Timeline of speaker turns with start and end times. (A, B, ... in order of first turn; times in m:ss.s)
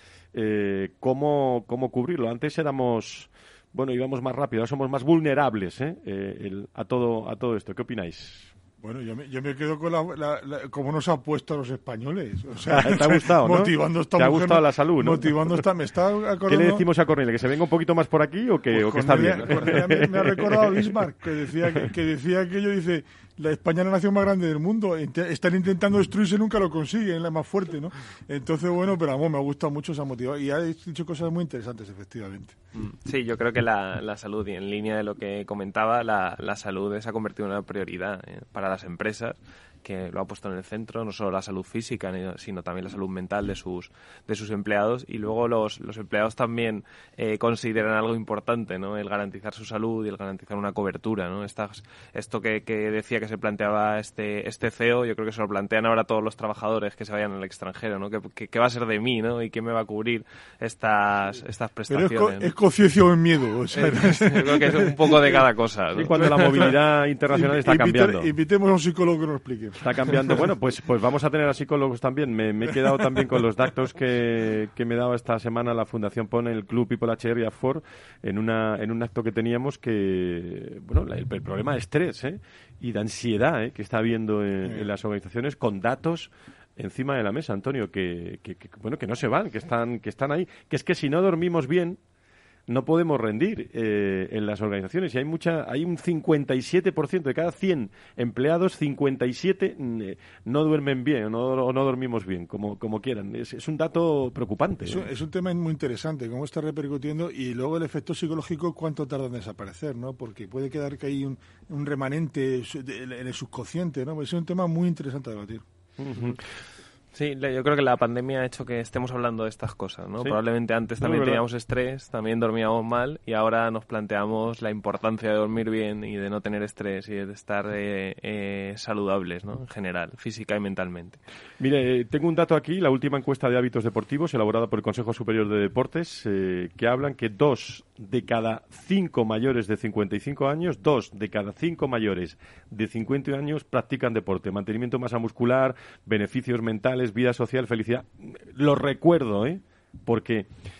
0:00.3-0:08.5 A
0:08.8-0:16.8 B
0:12.7-0:15.6 A
0:16.5-0:21.0 A
0:18.7-0:32.6 B
0:32.7-1:02.5 C
1:01.9-1:05.4 B
1:03.7-1:06.7 C
1:06.0-1:08.3 A
1:06.1-1:06.8 B
1:07.3-1:10.4 B
1:09.8-1:32.0 A
1:24.6-1:24.9 B
1:32.7-1:45.1 A
1:44.8-1:55.6 B
1:56.0-1:56.4 A
1:57.1-2:11.2 C
2:01.0-2:01.4 A
2:11.6-2:30.5 A